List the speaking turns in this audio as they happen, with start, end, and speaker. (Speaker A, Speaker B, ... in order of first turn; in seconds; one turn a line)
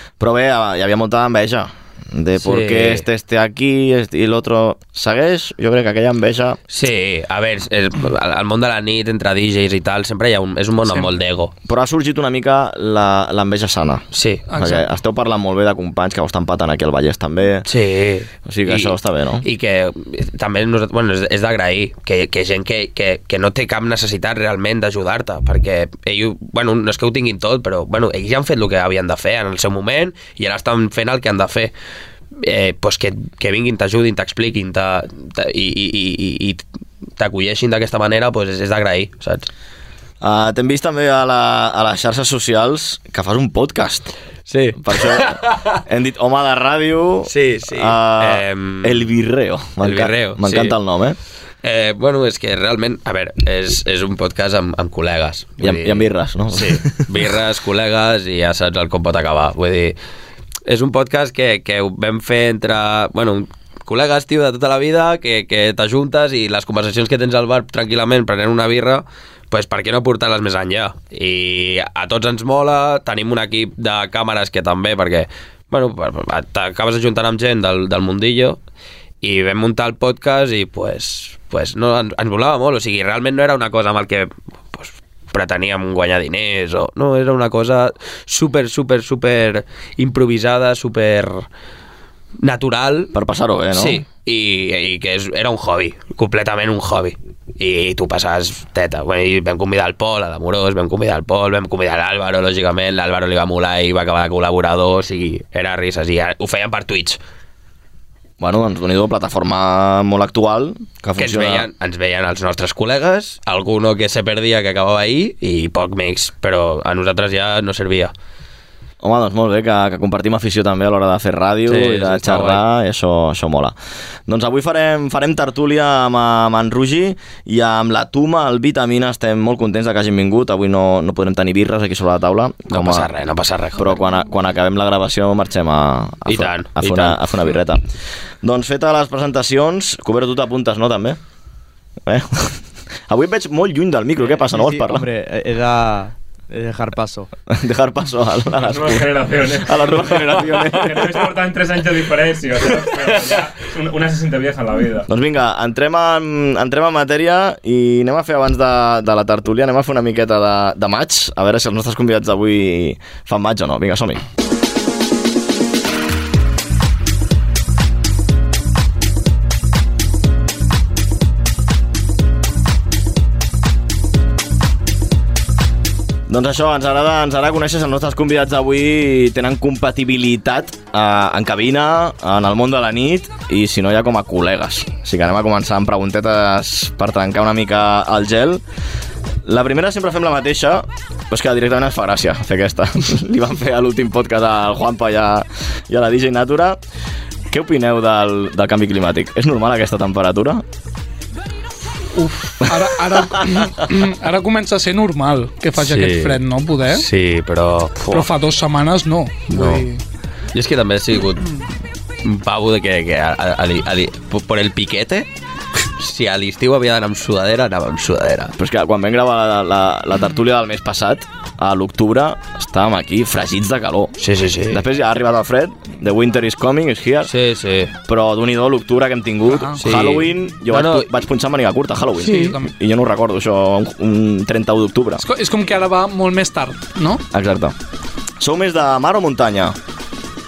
Speaker A: 0.2-6.6
Speaker B: 2.4-3.0
Speaker B: 6.7-11.5
Speaker A: 11.7-17.7
Speaker B: 14.1-14.5
Speaker C: 14.5-14.8
Speaker B: 17.7-31.7
Speaker A: 18.5-19.4
Speaker B: 32.4-36.6
Speaker B: 37.2-39.5
Speaker A: 40.2-44.1
Speaker B: 44.5-45.8
Speaker A: 44.8-51.2
Speaker B: 47.3-49.1
Speaker B: 49.8-50.8
Speaker B: 51.6-60.0
Speaker A: 55.6-57.0
Speaker B: 60.7-78.6
Speaker B: 79.2-91.5
Speaker B: 92.4-93.1
Speaker A: 93.1-94.0
Speaker B: 93.7-107.2
Speaker A: 108.4-111.7
Speaker B: 111.2-118.1
Speaker A: 119.0-123.8
Speaker B: 121.7-122.6
Speaker A: 124.3-133.1
Speaker B: 132.7-134.1
Speaker A: 133.8-137.8
Speaker B: 136.3-137.2
Speaker A: 138.4-141.2
Speaker A: 142.1-145.1
Speaker D: 144.3-147.3
Speaker A: 147.5-151.2
Speaker E: 148.6-155.1
Speaker A: 155.1-164.2
Speaker A: 176.3-188.6
Speaker A: 189.4-196.8
Speaker A: 197.5-200.6
Speaker C: 202.2-207.1
Speaker A: 202.7-203.7
Speaker B: 205.8-208.3
Speaker C: 208.1-210.0
Speaker B: 209.5-209.9
Speaker B: 210.5-211.6
Speaker B: 212.2-215.3
Speaker B: 215.8-218.6
Speaker A: 218.6-224.2
Speaker B: 224.2-224.8
Speaker A: 224.7-227.3
Speaker B: 227.3-227.9
Speaker A: 228.1-235.2
Speaker C: 229.5-229.8
Speaker B: 229.8-231.1
Speaker C: 232.2-232.7
Speaker C: 235.2-237.2
Speaker A: 237.3-237.8
Speaker A: 238.4-239.8